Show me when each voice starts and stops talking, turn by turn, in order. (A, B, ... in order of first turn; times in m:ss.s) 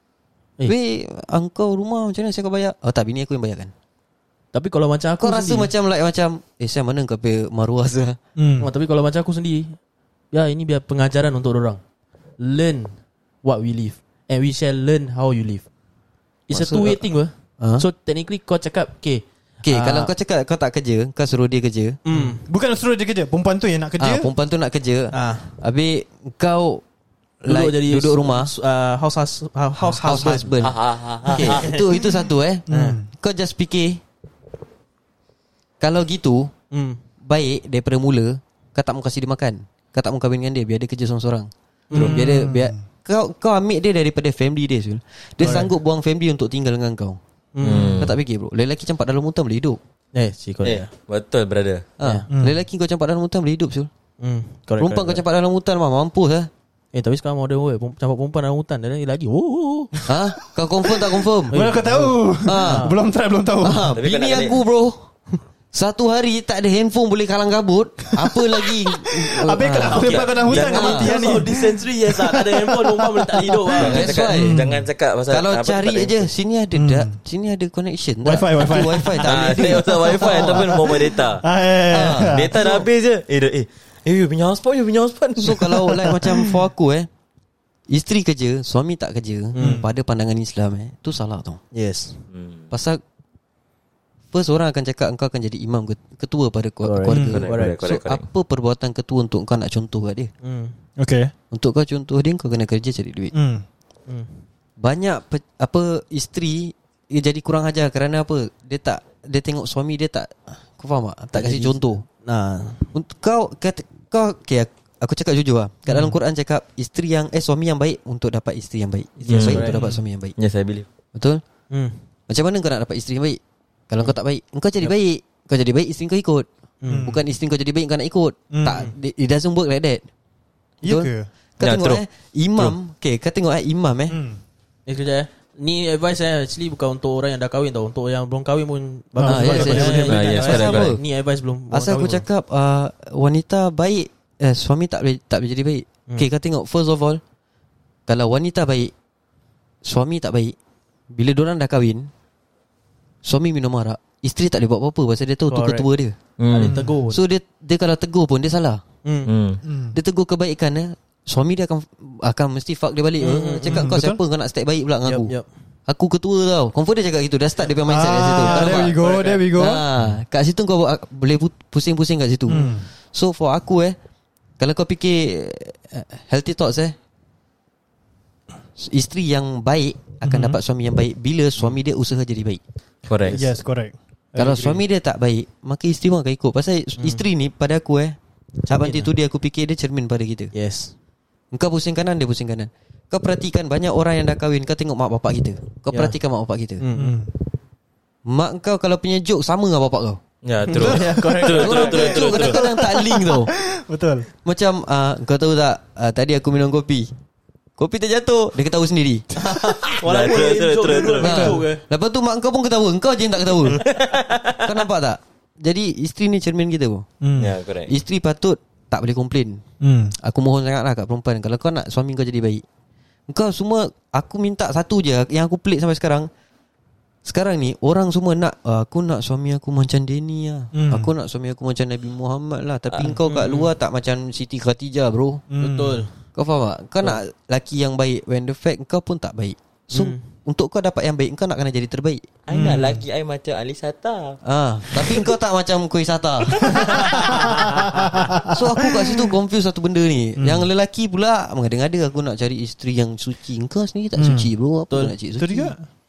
0:00.6-0:03.7 A
0:04.5-0:05.7 B
0:05.2-0:08.2 A
0:08.4-0:08.7 C
0:08.6-0:09.8 B
0:10.3-0:11.8 B
0:12.4-0:15.6 B
0:16.5-0:20.1 B
0:16.5-0:17.0 A
0:17.6-0:17.8 A
0:19.6-0:22.0 A
0:22.0-0:22.4 B
0:22.2-0:24.3 C
0:24.0-0:26.8 A
0:25.1-0:25.5 B
0:27.4-0:28.5 A
0:27.5-0:30.6 B
0:29.8-0:34.0 A
0:30.6-0:31.7 D
0:31.2-0:33.0 B
0:32.7-0:33.0 C
0:35.8-0:36.5 A
0:36.7-0:37.0 B
0:37.2-0:47.2 A
0:41.9-0:42.2 B
0:41.9-0:42.8 C
0:45.4-0:45.7 B
0:45.4-0:45.7 C
0:47.5-0:48.0 B
0:47.6-0:48.2 D
0:48.0-0:49.8 A
0:50.1-0:50.9 B
0:50.6-0:51.9 D
0:52.0-0:53.9 A
0:52.0-0:52.3 B
0:52.3-0:52.6 C
0:54.2-0:55.2 B
0:54.8-0:56.5 A
0:56.9-1:00.0 B
1:00.1-1:01.6 A
1:01.5-1:03.0 B
1:01.5-1:03.9 C
1:02.4-1:02.9 A
1:03.6-1:05.0 A
1:03.9-1:04.6 D
1:05.7-1:11.3 A
1:08.2-1:14.8 C
1:09.8-1:14.2 B
1:09.9-1:11.3 D
1:13.7-1:16.2 D
1:13.8-1:14.6 A
1:15.3-1:20.7 A
1:16.7-1:17.1 C
1:18.2-1:22.7 C
1:19.2-1:21.4 D
1:21.9-1:22.4 A
1:22.2-1:25.7 D
1:25.4-1:27.1 A
1:25.6-1:26.5 C
1:27.9-1:31.6 A
1:29.5-1:29.8 B
1:29.6-1:29.9 C
1:31.7-1:32.2 B
1:32.3-1:32.6 D
1:32.7-1:33.0 A
1:34.3-1:40.3 A
1:36.8-1:37.8 B
1:37.1-1:37.4 C
1:37.3-1:38.2 D
1:40.4-1:40.7 B
1:41.0-1:41.3 C
1:41.5-1:43.3 A
1:43.3-1:43.6 C
1:44.1-1:44.4 B
1:44.8-1:52.0 A
1:51.3-1:52.9 B
1:52.9-2:00.3 A
1:55.9-1:56.1 C
1:59.2-1:59.9 B
1:59.3-1:59.8 D
2:00.4-2:00.8 D
2:01.1-2:01.4 A
2:01.7-2:02.0 B
2:02.3-2:06.5 A
2:06.8-2:07.1 B
2:06.9-2:07.2 C
2:07.0-2:10.0 A
2:08.5-2:08.9 C
2:10.8-2:11.3 C
2:10.8-2:14.2 A
2:11.6-2:12.0 D
2:14.1-2:14.4 C
2:14.8-2:22.2 B
2:19.1-2:20.5 C
2:19.2-2:21.0 A
2:20.0-2:21.0 D
2:21.7-2:27.2 A
2:28.1-2:28.9 A
2:29.8-2:30.5 A
2:31.1-2:32.1 A
2:33.2-2:36.2 A
2:35.5-2:35.9 B
2:36.4-2:36.8 D
2:36.5-2:37.2 B
2:36.6-2:37.0 C
2:37.1-2:38.8 A
2:39.0-2:39.3 B
2:39.2-2:39.6 D
2:39.6-2:40.0 C
2:39.9-2:45.3 A
2:43.2-2:43.9 B
2:43.6-2:44.2 C
2:45.0-2:45.4 B
2:45.9-2:54.0 A
2:47.8-2:49.8 C
2:48.4-2:49.5 B
2:52.5-2:52.9 C
2:54.6-2:57.0 A
2:58.8-3:02.6 A
3:00.3-3:00.6 C
3:03.1-3:03.4 D
3:03.2-3:03.5 B
3:03.3-3:03.9 C
3:04.3-3:08.2 A
3:04.4-3:04.8 B
3:08.7-3:09.1 B
3:08.7-3:10.5 A
3:10.5-3:10.9 B
3:11.5-3:16.8 A
3:15.9-3:16.2 B
3:16.8-3:17.2 B
3:16.9-3:17.3 C
3:18.3-3:20.2 A
3:20.4-3:22.6 D
3:20.7-3:22.5 B
3:20.8-3:21.8 C
3:21.5-3:23.5 A
3:22.3-3:24.3 C
3:24.4-3:27.1 A
3:27.8-3:29.2 A
3:29.4-3:31.8 B
3:29.8-3:31.5 D
3:31.2-3:33.8 A
3:31.2-3:31.6 C
3:33.6-3:34.6 D
3:34.6-3:37.1 A
3:37.2-3:37.5 C
3:37.4-3:37.9 D
3:37.9-3:39.6 A
3:39.8-3:40.1 C
3:40.2-3:42.6 A
3:43.3-3:46.3 A
3:47.2-3:55.4 A
3:50.7-3:51.1 C
3:53.2-3:53.7 B
3:55.5-3:56.1 C
3:55.6-3:56.1 B
3:56.3-4:02.2 A
3:59.9-4:00.2 B
4:02.5-4:04.4 D
4:02.5-4:03.0 C
4:04.4-4:07.6 A
4:06.7-4:09.1 C
4:07.0-4:07.8 B
4:08.4-4:15.7 A
4:10.4-4:10.7 C
4:14.2-4:14.5 C
4:15.4-4:15.8 C